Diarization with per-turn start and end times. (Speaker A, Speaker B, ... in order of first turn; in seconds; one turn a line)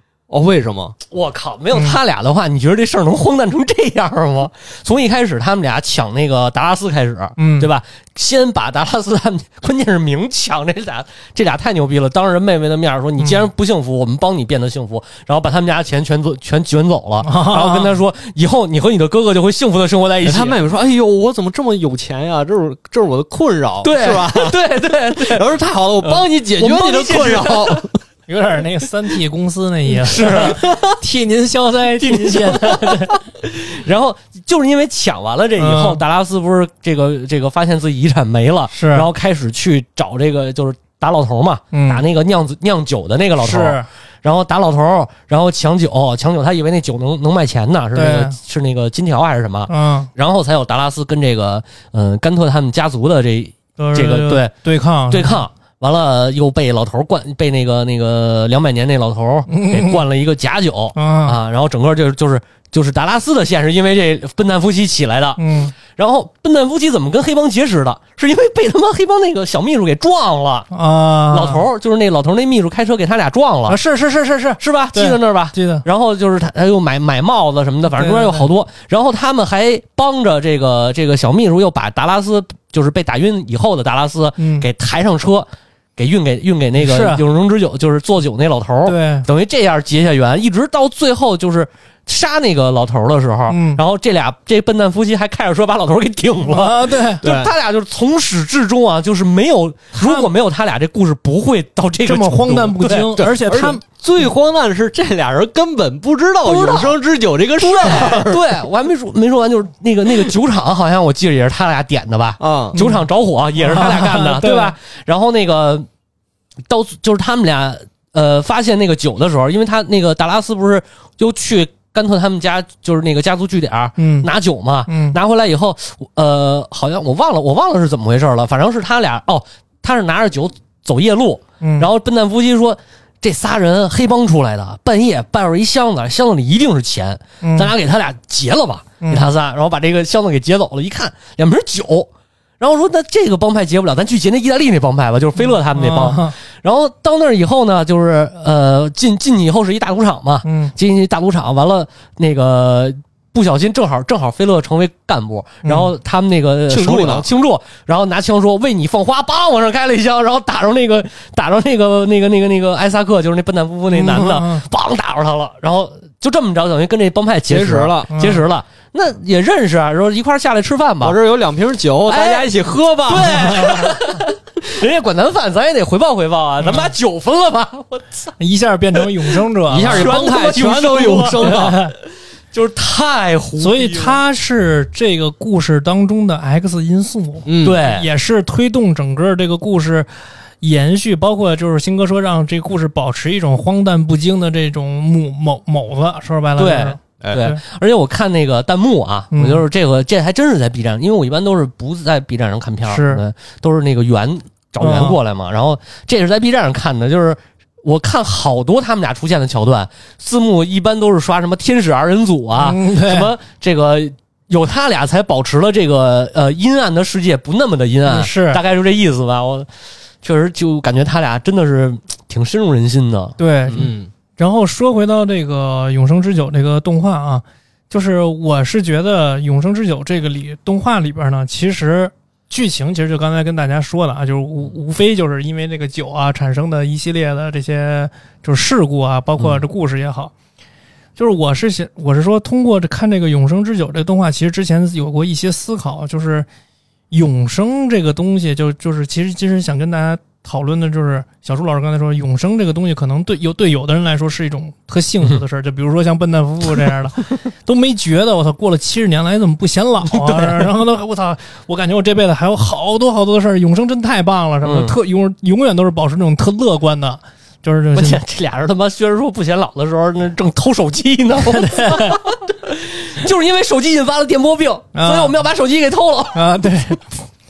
Speaker A: 0.3-1.0
Speaker B: 1.1-20.6
Speaker C: 1.7-2.0
Speaker C: 7.4-7.7
Speaker C: 17.2-17.9
Speaker A: 20.2-24.6
Speaker B: 23.8-25.4
Speaker A: 25.1-28.0
Speaker B: 26.0-27.9
Speaker C: 28.3-33.1
Speaker B: 30.0-30.8
Speaker A: 30.5-30.8
Speaker B: 32.0-54.5
Speaker C: 35.6-36.0
Speaker C: 38.7-39.1
Speaker C: 41.7-42.0
Speaker C: 43.4-43.9
Speaker C: 47.9-48.4
Speaker C: 49.7-50.1
Speaker C: 53.8-55.4
Speaker B: 55.1-70.7
Speaker C: 59.5-60.0
Speaker C: 60.9-61.4
Speaker C: 65.4-65.7
Speaker C: 70.7-71.6
Speaker B: 71.3-73.8
Speaker C: 73.7-75.8
Speaker B: 74.6-103.2
Speaker C: 77.9-78.5
Speaker C: 84.4-84.7
Speaker C: 86.8-87.2
Speaker C: 88.8-89.3
Speaker C: 93.5-93.8
Speaker C: 96.4-97.2
Speaker A: 97.2-97.5
Speaker C: 99.9-100.3
Speaker C: 102.0-103.8
Speaker A: 103.2-108.5
Speaker B: 106.4-107.0
Speaker B: 107.6-115.9
Speaker A: 112.4-112.8
Speaker C: 112.7-113.0
Speaker C: 113.6-114.8
Speaker B: 116.7-171.2
Speaker C: 124.0-124.3
Speaker C: 124.9-125.2
Speaker C: 131.6-131.9
Speaker C: 137.4-137.7
Speaker C: 139.0-139.3
Speaker C: 145.4-146.4
Speaker C: 150.4-150.7
Speaker C: 155.6-155.9
Speaker A: 156.7-157.2
Speaker C: 163.9-164.6
Speaker A: 167.5-168.1
Speaker C: 168.1-168.4
Speaker A: 171.0-173.7
Speaker B: 172.1-172.5
Speaker B: 173.1-178.3
Speaker C: 173.3-174.0
Speaker C: 176.6-176.9
Speaker C: 178.4-181.9
Speaker A: 179.7-181.8
Speaker B: 179.7-184.2
Speaker C: 183.6-190.1
Speaker A: 187.4-187.8
Speaker B: 187.6-188.1
Speaker C: 190.6-197.6
Speaker B: 196.6-219.7
Speaker C: 199.3-199.6
Speaker C: 202.8-203.2
Speaker C: 204.8-205.2
Speaker C: 212.6-213.3
Speaker C: 218.0-218.6
Speaker B: 220.2-223.9
Speaker C: 223.4-240.3
Speaker A: 223.8-224.1
Speaker C: 241.2-246.5
Speaker C: 247.1-268.2
Speaker B: 260.1-260.7
Speaker B: 264.6-264.9
Speaker B: 267.9-276.5
Speaker C: 271.4-272.2
Speaker C: 274.9-275.4
Speaker C: 276.3-277.1